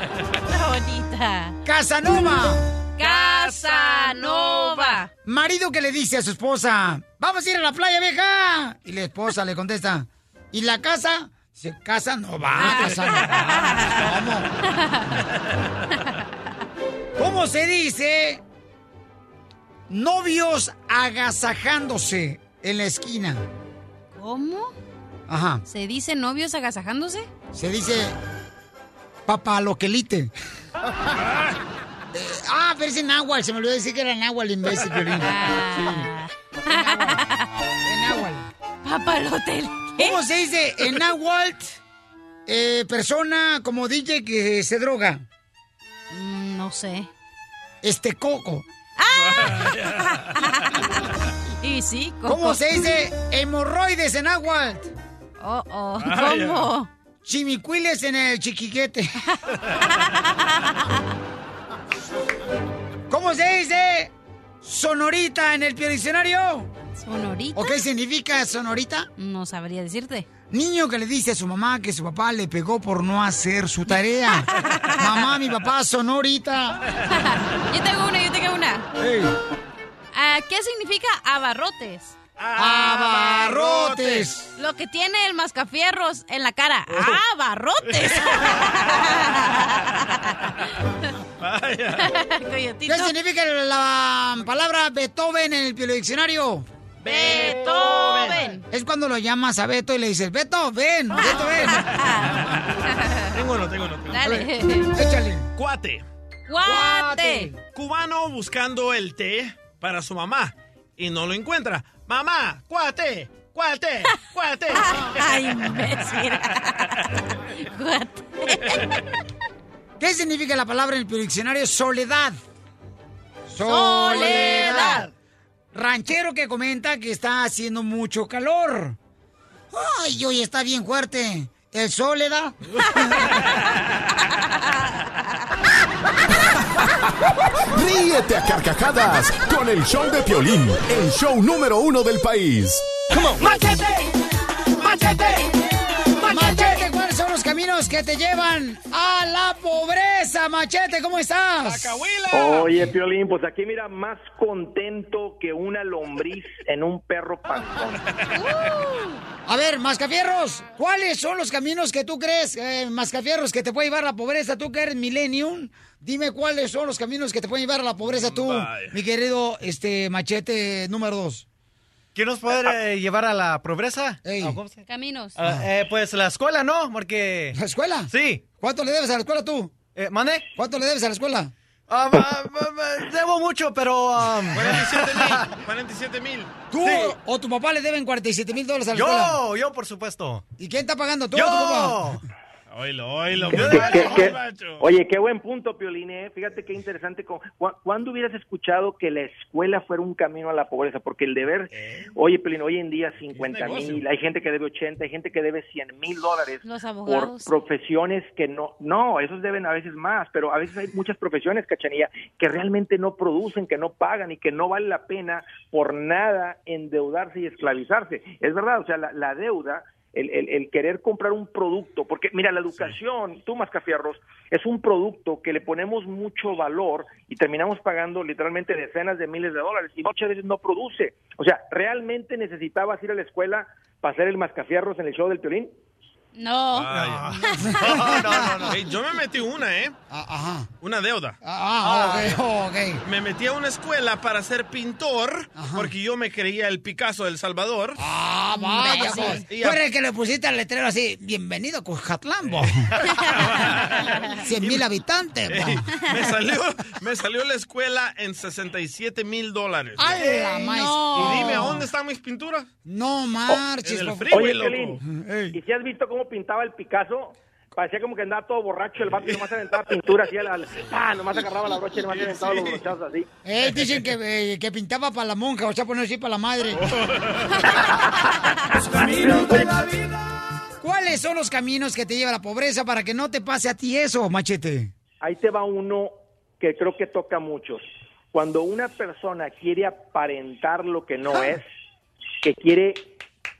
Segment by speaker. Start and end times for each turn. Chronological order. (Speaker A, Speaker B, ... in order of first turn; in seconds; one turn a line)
Speaker A: 0.5-1.6
Speaker B: 1.6-2.7
Speaker A: 3.0-5.1
Speaker C: 3.0-5.0
Speaker B: 5.2-14.5
Speaker A: 12.6-14.1
Speaker A: 14.7-15.2
Speaker B: 17.2-18.4
Speaker B: 19.9-23.4
Speaker A: 24.1-24.7
Speaker B: 25.3-25.6
Speaker A: 25.6-27.3
Speaker B: 27.5-28.1
Speaker B: 29.3-30.3
Speaker B: 32.1-36.0
Speaker A: 35.2-37.5
Speaker B: 36.7-37.1
Speaker B: 37.8-38.5
Speaker A: 38.8-40.2
Speaker B: 40.0-41.8
Speaker B: 42.5-45.2
Speaker A: 46.1-47.1
Speaker B: 47.8-48.6
Speaker A: 49.0-51.0
Speaker C: 49.1-50.5
Speaker A: 51.6-52.6
Speaker B: 52.2-54.9
Speaker A: 55.4-56.9
Speaker C: 56.0-56.7
Speaker B: 57.2-59.1
Speaker A: 60.0-60.8
Speaker B: 63.1-66.7
Speaker A: 67.0-67.8
Speaker B: 67.5-69.1
Speaker A: 69.2-70.3
Speaker B: 70.5-76.8
Speaker A: 74.6-75.0
Speaker A: 77.0-78.9
Speaker B: 79.0-79.3
Speaker A: 80.1-82.2
Speaker C: 82.4-84.3
Speaker B: 82.6-84.5
Speaker A: 84.6-90.9
Speaker C: 86.9-87.2
Speaker C: 87.8-89.5
Speaker C: 91.4-92.1
Speaker A: 92.0-93.1
Speaker B: 92.9-96.7
Speaker C: 97.0-98.5
Speaker A: 97.1-98.6
Speaker B: 98.7-101.8
Speaker A: 101.2-103.3
Speaker C: 103.3-104.4
Speaker A: 104.1-104.9
Speaker B: 104.2-105.5
Speaker C: 105.5-106.0
Speaker A: 106.5-107.5
Speaker B: 106.6-107.6
Speaker C: 107.7-115.3
Speaker A: 114.7-118.9
Speaker B: 120.0-122.4
Speaker B: 123.5-125.0
Speaker A: 123.6-125.1
Speaker B: 125.7-129.0
Speaker B: 129.7-132.6
Speaker D: 137.7-142.8
Speaker C: 144.8-145.5
Speaker B: 146.2-151.9
Speaker C: 151.6-152.7
Speaker E: 152.3-158.0
Speaker A: 158.3-159.2
Speaker B: 159.4-171.4
Speaker C: 168.0-169.0
Speaker F: 172.1-174.8
Speaker B: 174.2-174.6
Speaker A: 174.9-175.3
Speaker F: 175.4-177.6
Speaker B: 177.5-179.7
Speaker F: 178.1-178.4
Speaker F: 179.9-180.5
Speaker B: 180.6-181.5
Speaker F: 181.9-185.5
Speaker C: 184.5-186.5
Speaker B: 186.7-189.4
Speaker F: 186.8-187.1
Speaker F: 188.9-190.4
Speaker B: 190.6-192.0
Speaker F: 191.3-192.2
Speaker C: 192.7-194.9
Speaker F: 193.4-194.3
Speaker E: 193.6-235.7
Speaker C: 203.3-204.0
Speaker A: 206.6-207.5
Speaker A: 236.3-238.2
Speaker C: 236.7-237.3
Speaker F: 236.9-238.8
Speaker B: 237.9-238.3
Speaker C: 238.6-240.0
Speaker B: 240.1-240.7
Speaker C: 240.8-241.4
Speaker B: 241.4-243.0
Speaker F: 241.8-242.3
Speaker C: 243.0-248.0
Speaker B: 245.6-245.9
Speaker B: 248.0-252.9
Speaker A: 248.5-249.4
Speaker C: 249.3-249.8
Speaker C: 252.4-254.8
Speaker A: 253.1-254.4
Speaker B: 254.4-255.8
Speaker C: 255.5-260.3
Speaker B: 260.0-261.8
Speaker A: 260.3-261.8
Speaker C: 261.1-262.7
Speaker B: 262.9-265.6
Speaker C: 263.5-265.0
Speaker E: 264.3-265.0
Speaker E: 265.5-273.3
Speaker C: 269.1-269.5
Speaker C: 272.1-272.8
Speaker B: 273.4-276.8
Speaker C: 273.6-273.9
Speaker C: 276.7-277.6
Speaker F: 278.9-280.1
Speaker E: 279.1-279.7
Speaker B: 280.8-284.9
Speaker E: 285.2-291.6
Speaker E: 292.4-293.1